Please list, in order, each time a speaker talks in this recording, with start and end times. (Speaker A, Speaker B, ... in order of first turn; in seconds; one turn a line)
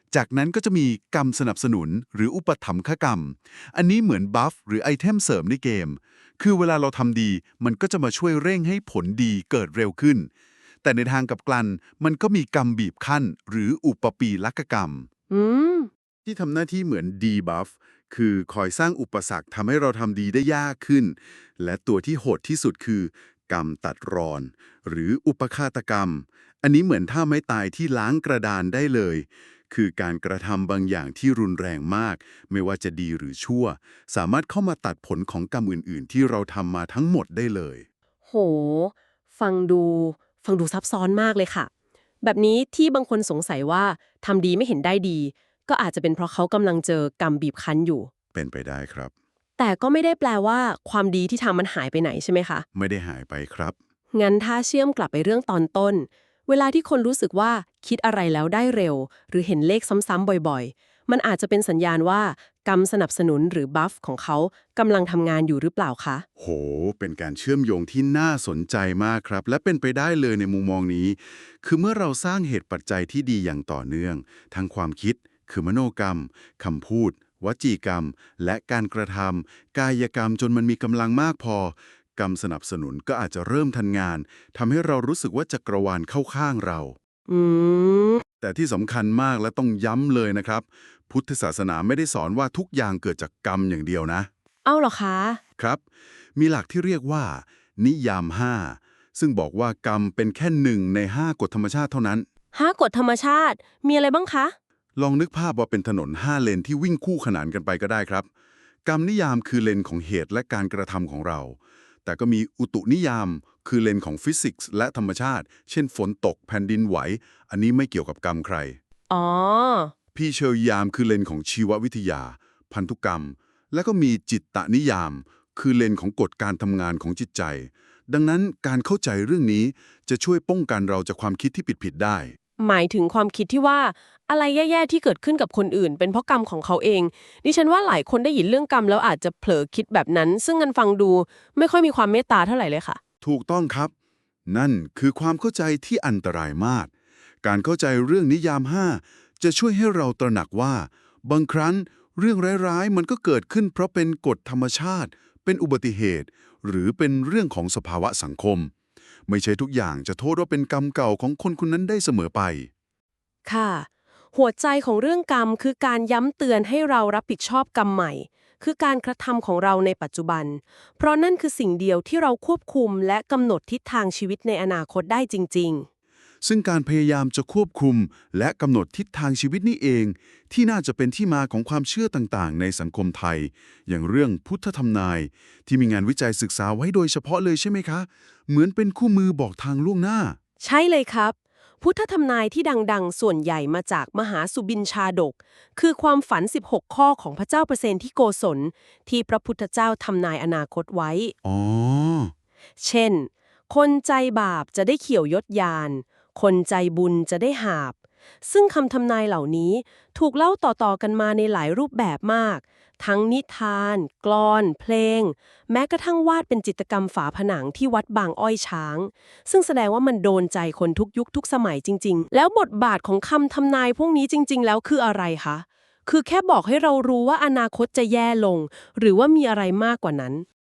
Speaker A: 0.1-10.3
Speaker A: 10.8-15.1
Speaker B: 15.3-15.9
Speaker A: 16.2-37.8
Speaker B: 38.2-41.7
Speaker B: 42.2-48.1
Speaker A: 48.3-49.1
Speaker B: 49.6-52.6
Speaker A: 52.7-53.7
Speaker B: 54.1-66.2
Speaker A: 66.4-87.0
Speaker B: 87.3-88.2
Speaker A: 88.4-94.3
Speaker B: 94.6-95.4
Speaker A: 96.3-102.3
Speaker B: 102.5-104.5
Speaker A: 105.0-108.3
Speaker A: 108.8-118.8
Speaker B: 119.1-119.9
Speaker A: 120.1-132.3
Speaker B: 132.6-143.0
Speaker A: 143.2-143.9
Speaker A: 144.5-146.9
Speaker A: 147.4-158.7
Speaker A: 159.3-162.7
Speaker B: 163.4-175.9
Speaker A: 176.4-190.4
Speaker B: 190.6-201.3
Speaker A: 201.4-202.3
Speaker B: 202.8-230.4